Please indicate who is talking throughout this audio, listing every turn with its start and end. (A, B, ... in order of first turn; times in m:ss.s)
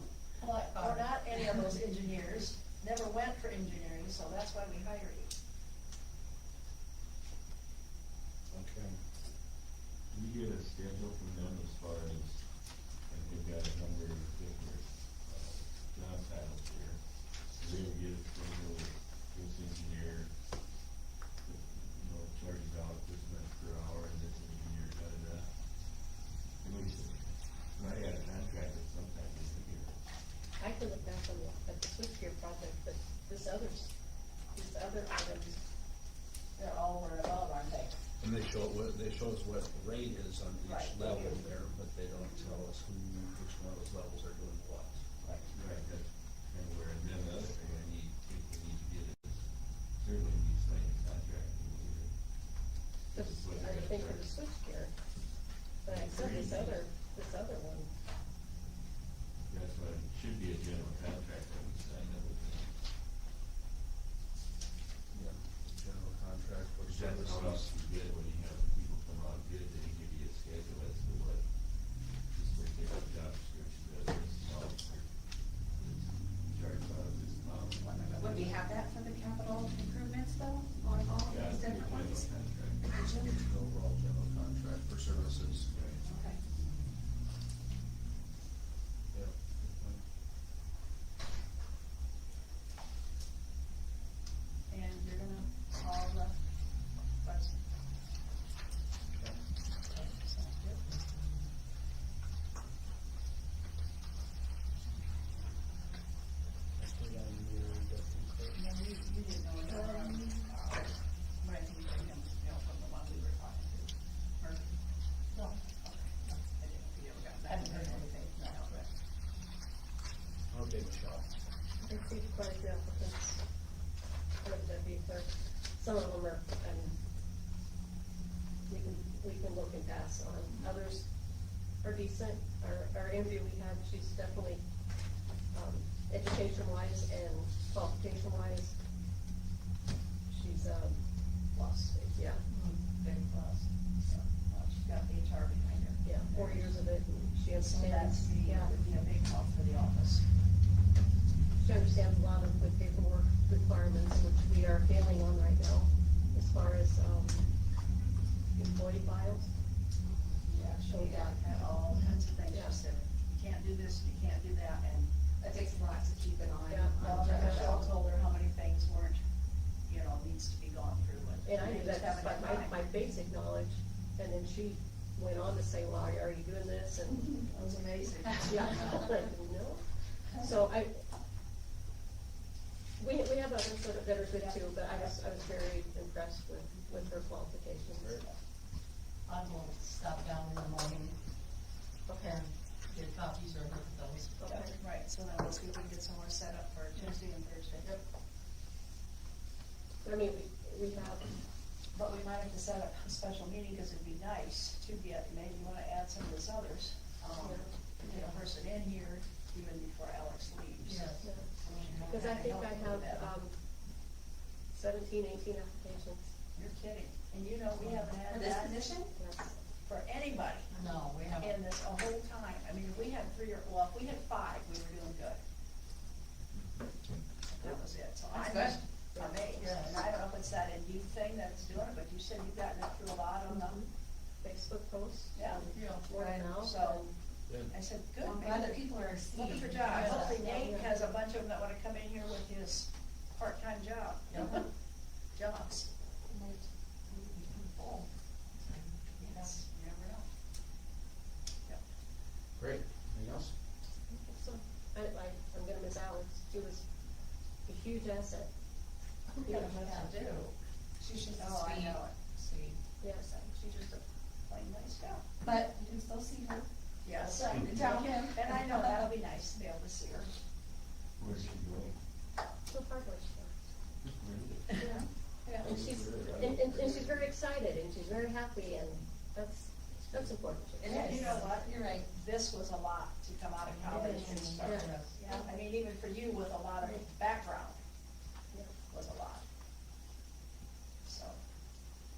0:00.4-0:05.3 A
0:00.7-0:01.5 B
0:08.5-0:09.0 C
0:10.1-0:12.4 D
0:13.1-0:17.0 D
0:17.6-0:20.3 D
0:21.4-0:25.5 D
0:26.6-0:30.0 D
0:30.6-0:33.9 E
0:34.5-0:35.6 E
0:36.6-0:38.0 A
0:38.2-0:45.0 C
0:40.6-0:41.5 A
0:42.2-0:42.7 A
0:45.2-0:45.5 A
0:45.5-0:49.5 D
0:50.0-0:52.1 D
0:53.1-0:54.9 E
0:53.1-0:54.4 D
0:55.8-0:57.9 E
0:55.9-0:56.8 D
0:59.5-1:02.7 D
1:05.1-1:07.7 C
1:06.8-1:11.4 D
1:12.3-1:15.1 D
1:15.7-1:18.2 D
1:17.8-1:18.6 A
1:18.2-1:22.3 F
1:21.2-1:22.9 D
1:23.0-1:25.7 C
1:25.7-1:26.0 D
1:26.1-1:26.4 A
1:29.1-1:30.0 C
1:34.7-1:36.4 A
1:37.2-1:37.6 A
1:39.9-1:40.8 A
1:46.8-1:48.6 C
1:48.5-1:54.8 A
1:55.8-1:58.9 A
1:57.5-1:58.1 B
2:00.5-2:01.3 C
2:01.8-2:03.4 E
2:04.4-2:07.0 E
2:08.7-2:11.1 E
2:11.8-2:14.6 E
2:15.5-2:18.8 E
2:20.3-2:21.0 E
2:21.5-2:22.0 A
2:21.9-2:22.4 E
2:22.5-2:23.7 B
2:24.0-2:26.8 A
2:26.0-2:28.7 E
2:27.6-2:30.2 A
2:31.6-2:37.5 E
2:38.6-2:39.5 E
2:40.5-2:41.4 F
2:40.5-2:45.1 A
2:40.9-2:41.4 E
2:42.5-2:42.8 E
2:45.4-2:47.9 F
2:46.7-2:47.8 E
2:47.0-2:49.2 A
2:49.9-2:52.8 A
2:51.4-2:57.4 E
2:57.4-2:59.1 A
2:58.4-2:59.8 E
3:00.4-3:01.0 E
3:03.0-3:08.2 E
3:04.4-3:05.1 A
3:08.0-3:08.2 C
3:09.3-3:11.2 B
3:12.1-3:14.5 B
3:14.4-3:14.8 E
3:14.4-3:17.9 A
3:20.0-3:21.4 E
3:21.9-3:33.3 A
3:27.3-3:27.7 E
3:28.0-3:28.5 B
3:30.8-3:32.1 B
3:31.2-3:33.6 E
3:34.7-3:36.3 E
3:36.6-3:39.0 A
3:37.8-3:38.1 B
3:38.3-3:39.1 F
3:39.1-3:39.6 E
3:39.8-3:40.7 A
3:40.7-3:41.6 B
3:41.4-3:45.4 A
3:47.5-3:53.8 A
3:48.3-3:48.8 F
3:49.1-3:49.4 E
3:49.5-3:50.0 B
3:53.5-3:53.9 E
3:54.4-3:57.2 E
3:55.4-3:55.7 A
3:55.7-3:56.5 B
3:56.6-3:57.1 A
3:57.7-4:04.6 A
3:58.2-3:58.8 F
3:58.3-4:00.5 B
3:59.9-4:00.5 F
3:59.9-4:00.9 E
4:04.3-4:04.7 B
4:05.4-4:05.9 A
4:06.3-4:08.1 F
4:08.6-4:09.6 B
4:09.2-4:10.3 A
4:12.6-4:13.5 C
4:14.1-4:16.9 E
4:17.7-4:18.5 E
4:19.4-4:20.1 E
4:19.5-4:20.6 A
4:19.6-4:20.2 B
4:21.0-4:22.6 F
4:21.4-4:22.3 A
4:23.0-4:23.3 E
4:23.2-4:25.3 A
4:25.4-4:26.7 F
4:27.0-4:30.4 A
4:27.6-4:29.0 F
4:31.2-4:32.0 D
4:32.7-4:33.6 E
4:34.1-4:34.8 D
4:34.8-4:35.1 E
4:35.5-4:35.8 A
4:35.6-4:37.3 D
4:35.6-4:41.5 E
4:40.8-4:42.0 F
4:40.8-4:47.8 A
4:40.8-4:41.6 B
4:43.7-4:45.1 B
4:43.9-4:45.5 E
4:44.2-4:44.6 F
4:48.9-4:49.4 A
4:51.0-4:51.4 A